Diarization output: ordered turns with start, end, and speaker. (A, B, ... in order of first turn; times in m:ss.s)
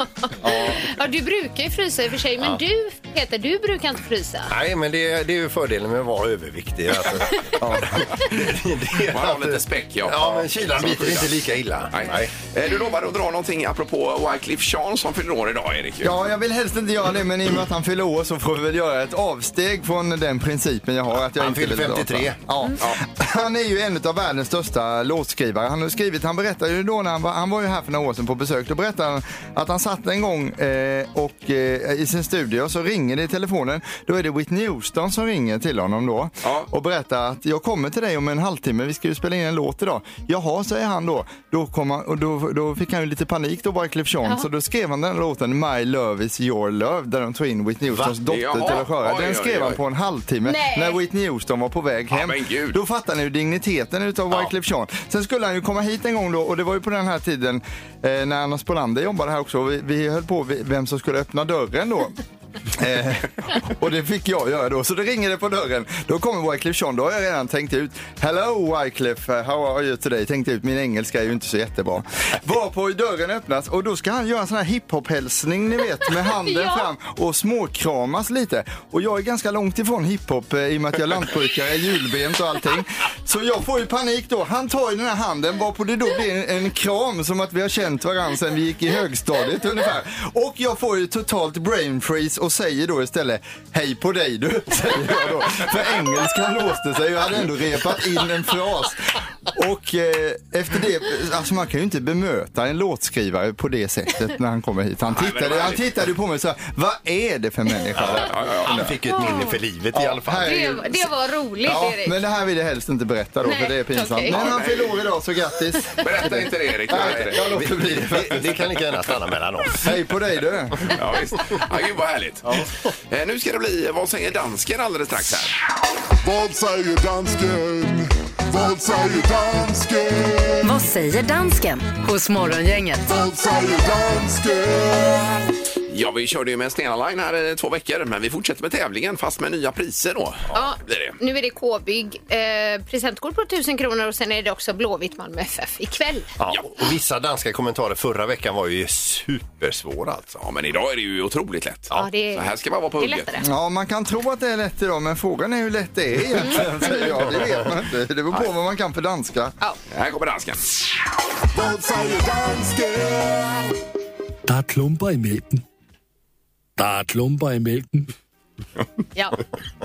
0:00.2-0:04.5 A
0:00.4-0:00.8 B
0:04.5-0:12.3 C
0:07.6-0:08.0 B
0:09.0-0:11.4 D
0:11.9-0:16.2 D
0:16.0-1:02.2 B
0:21.3-0:22.4 C
0:36.4-0:36.7 D
0:48.3-0:49.8 D
0:50.4-0:51.0 A
0:52.1-0:52.8 D
1:02.7-1:49.0 B
1:16.4-1:16.9 A
1:45.1-1:45.8 D
1:48.0-1:48.9 D
1:48.1-1:50.6 C
1:49.1-1:49.6 A
1:49.9-1:51.1 B
1:50.4-1:52.2 A
1:51.6-1:58.6 B
1:53.4-1:54.4 A
1:54.3-1:55.1 D
1:56.0-1:57.5 D
1:56.9-1:59.9 C
1:59.8-2:00.9 B
2:00.9-2:05.6 D
2:06.2-2:10.7 E
2:10.6-2:13.1 F
2:13.1-2:15.4 E
2:15.9-2:21.2 D
2:20.5-2:26.3 A
2:26.4-2:30.4 C
2:30.4-2:33.3 D
2:31.9-2:33.4 A
2:33.4-2:39.5 B
2:39.9-2:40.6 D
2:41.5-2:43.7 E
2:44.5-2:45.6 G
2:46.8-2:48.1 G